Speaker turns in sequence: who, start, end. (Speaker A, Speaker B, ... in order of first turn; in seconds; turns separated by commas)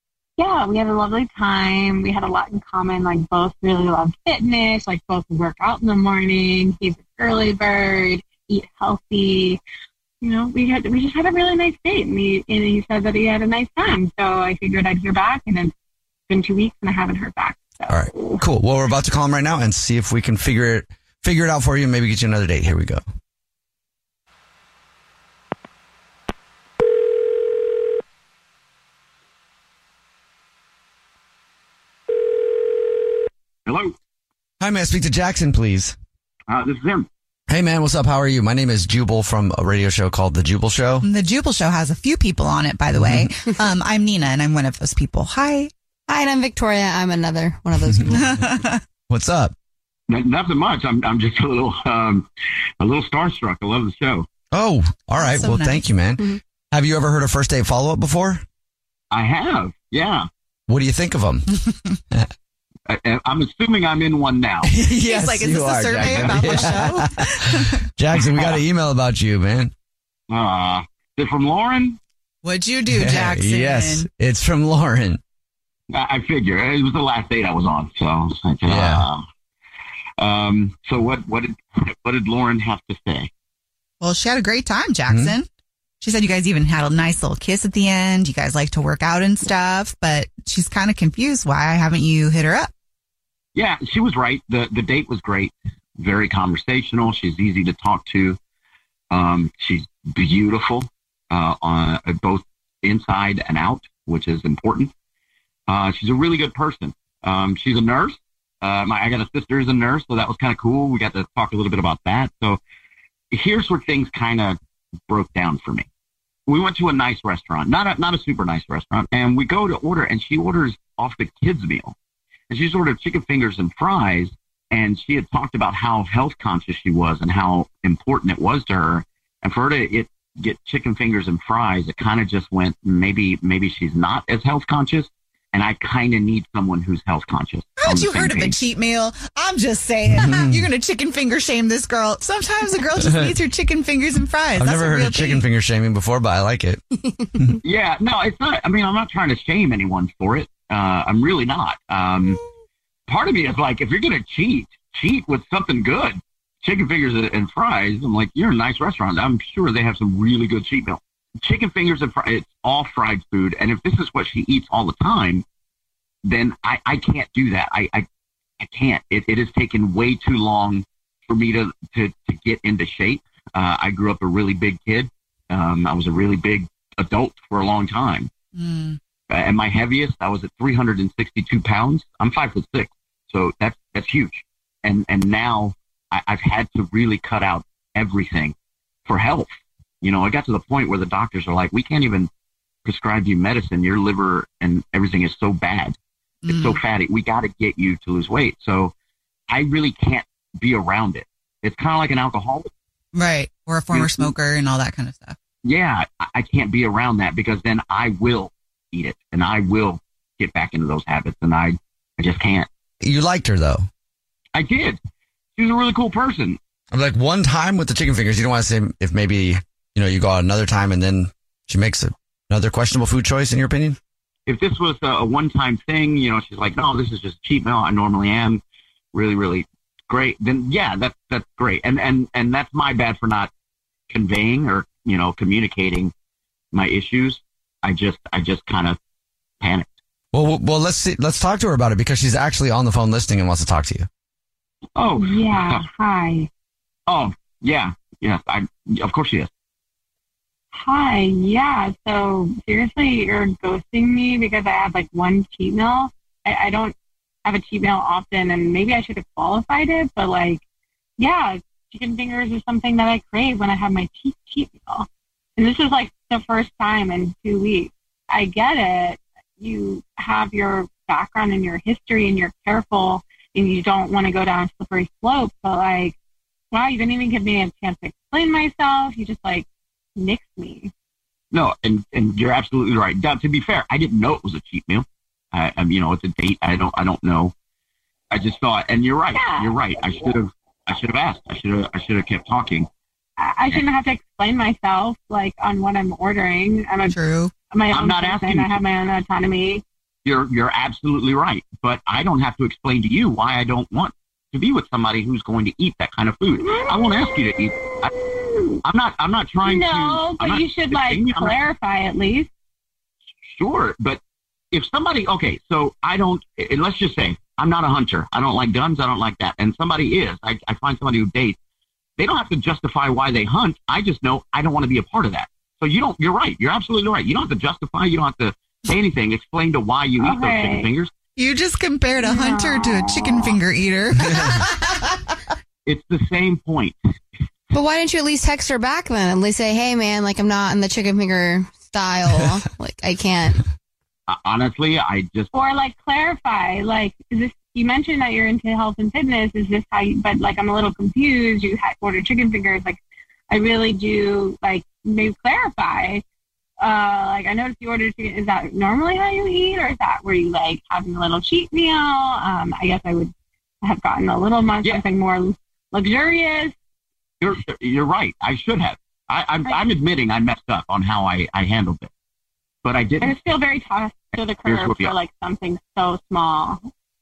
Speaker A: 0.4-9.6, Speaker A: 10.2-15.7, Speaker A: 16.3-18.4, Speaker B: 17.9-23.0, Speaker C: 33.7-33.9, Speaker B: 34.6-36.0, Speaker C: 36.5-37.1, Speaker B: 37.5-41.1, Speaker D: 41.0-45.7, Speaker B: 43.0-43.3, Speaker E: 46.1-48.4, Speaker B: 47.9-48.4, Speaker D: 48.2-48.7, Speaker B: 49.1-49.5, Speaker C: 50.1-52.3, Speaker C: 52.8-54.3, Speaker B: 54.5-58.4, Speaker D: 55.1-55.8, Speaker C: 59.1-60.3, Speaker B: 60.7-61.5, Speaker C: 62.9-64.7, Speaker B: 64.7-69.7, Speaker D: 64.9-67.8, Speaker C: 66.0-66.7, Speaker C: 70.3-72.0, Speaker D: 72.4-74.1, Speaker B: 73.0-75.2, Speaker C: 75.9-79.2, Speaker B: 78.7-79.1, Speaker C: 80.2-83.3, Speaker D: 84.0-85.5, Speaker D: 86.0-92.7, Speaker C: 93.5-98.4, Speaker C: 99.1-104.9, Speaker C: 105.7-112.6, Speaker C: 113.3-114.6, Speaker C: 115.1-115.9, Speaker C: 116.5-122.0, Speaker C: 122.5-138.6, Speaker D: 137.8-145.4, Speaker B: 140.2-140.7, Speaker B: 144.6-146.8, Speaker C: 147.6-152.4, Speaker C: 153.1-165.4, Speaker C: 166.2-168.1, Speaker C: 168.6-178.3, Speaker D: 178.6-179.0, Speaker C: 179.3-188.6, Speaker C: 189.1-189.5, Speaker C: 190.0-192.3, Speaker C: 192.8-196.0, Speaker D: 196.4-196.8, Speaker C: 196.5-198.9, Speaker C: 199.5-202.7, Speaker D: 203.1-205.4, Speaker C: 203.9-204.3, Speaker C: 205.6-212.7, Speaker B: 213.0-213.9, Speaker C: 214.5-215.0, Speaker C: 215.6-216.6, Speaker B: 216.9-224.0, Speaker C: 224.5-228.6, Speaker C: 229.1-233.5, Speaker C: 234.1-236.1, Speaker C: 236.7-239.0, Speaker C: 239.6-240.0, Speaker B: 240.3-244.1, Speaker C: 245.0-245.8, Speaker A: 245.2-246.5, Speaker C: 247.1-249.5, Speaker A: 250.7-260.6, Speaker A: 261.2-276.2, Speaker A: 276.7-280.9, Speaker C: 281.5-287.5, Speaker C: 288.3-292.9, Speaker A: 289.3-289.8, Speaker A: 293.4-297.2, Speaker D: 297.1-297.5, Speaker A: 297.7-299.8, Speaker C: 297.9-298.8, Speaker C: 300.2-308.1, Speaker A: 306.7-308.8, Speaker C: 308.9-311.6, Speaker A: 309.6-312.5, Speaker C: 313.4-314.2, Speaker C: 314.7-321.6, Speaker C: 322.2-331.1, Speaker A: 330.2-330.9, Speaker D: 331.4-335.3, Speaker A: 332.2-333.6, Speaker C: 335.9-337.0, Speaker E: 337.7-343.6, Speaker C: 344.3-345.5, Speaker A: 345.5-356.2, Speaker A: 356.8-366.7, Speaker C: 367.4-372.1, Speaker C: 372.8-373.4, Speaker A: 373.2-376.8, Speaker C: 374.6-375.2